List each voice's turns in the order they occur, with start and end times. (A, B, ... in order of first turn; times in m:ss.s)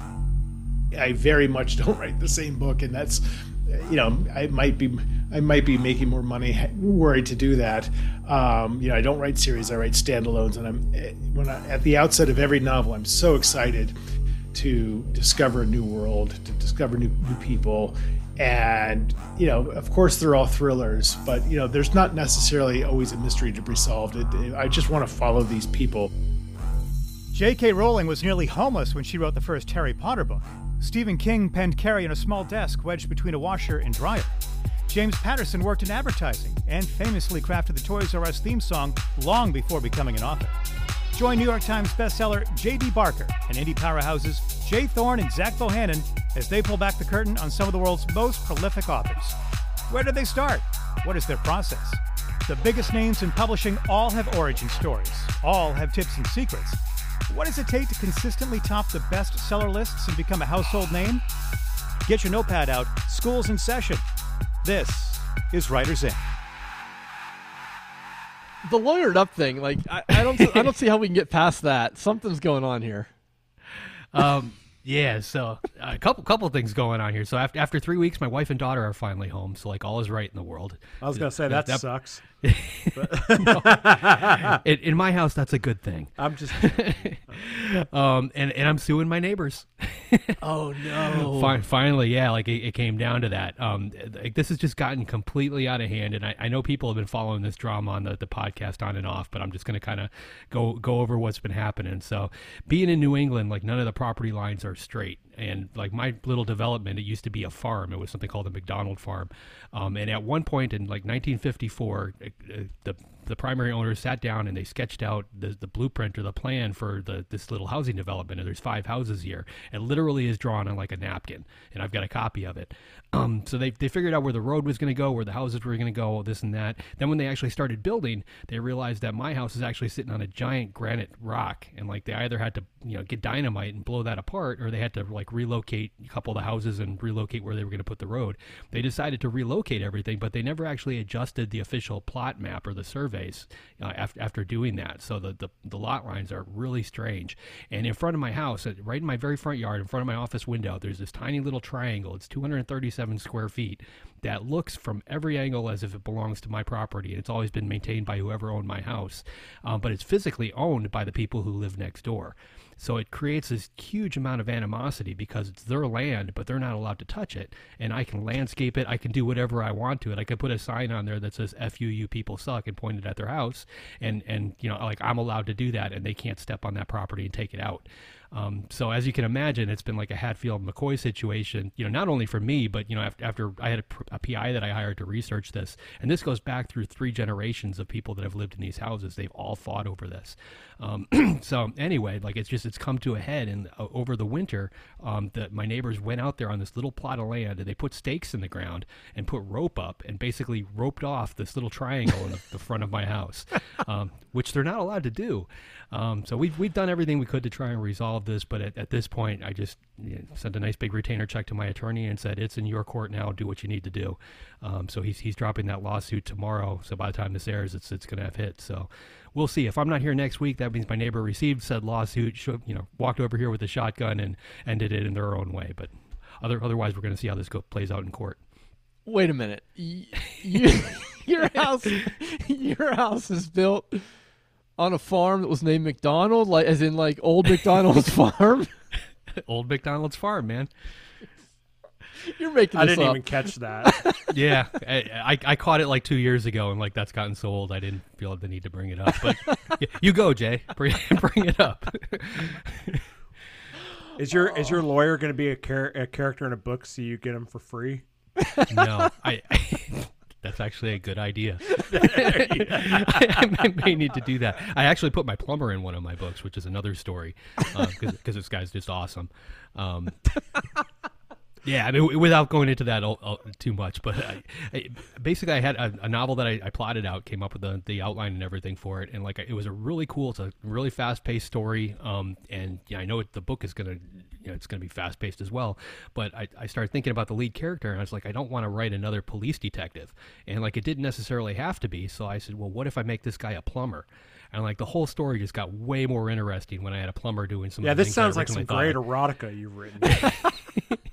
0:00.9-0:14.0 A
0:14.5-0:26.1 A
0:27.3-0:34.4 B
0:34.9-0:40.6 B
0:41.1-0:49.4 B
0:49.9-1:01.2 B
1:02.0-1:04.0 B
1:04.6-1:06.2 B
1:08.6-1:13.1 C
1:14.1-1:21.8 D
1:21.0-1:22.2 E
1:22.4-3:48.4 D
1:22.9-1:24.6 E
1:26.2-1:27.5 E
1:30.4-1:31.6 C
3:49.1-3:54.0 C
3:54.8-3:58.7 C
3:59.3-4:00.7 D
4:02.2-4:03.3 C
4:02.7-4:04.0 E
4:03.8-4:04.2 C
4:04.3-4:13.0 D
4:09.2-4:09.8 C
4:14.2-4:18.0 E
4:18.4-4:18.9 C
4:18.7-4:30.4 D
4:21.9-4:23.2 E
4:31.6-4:59.0 D
4:57.8-5:00.4 E
5:00.1-5:01.0 D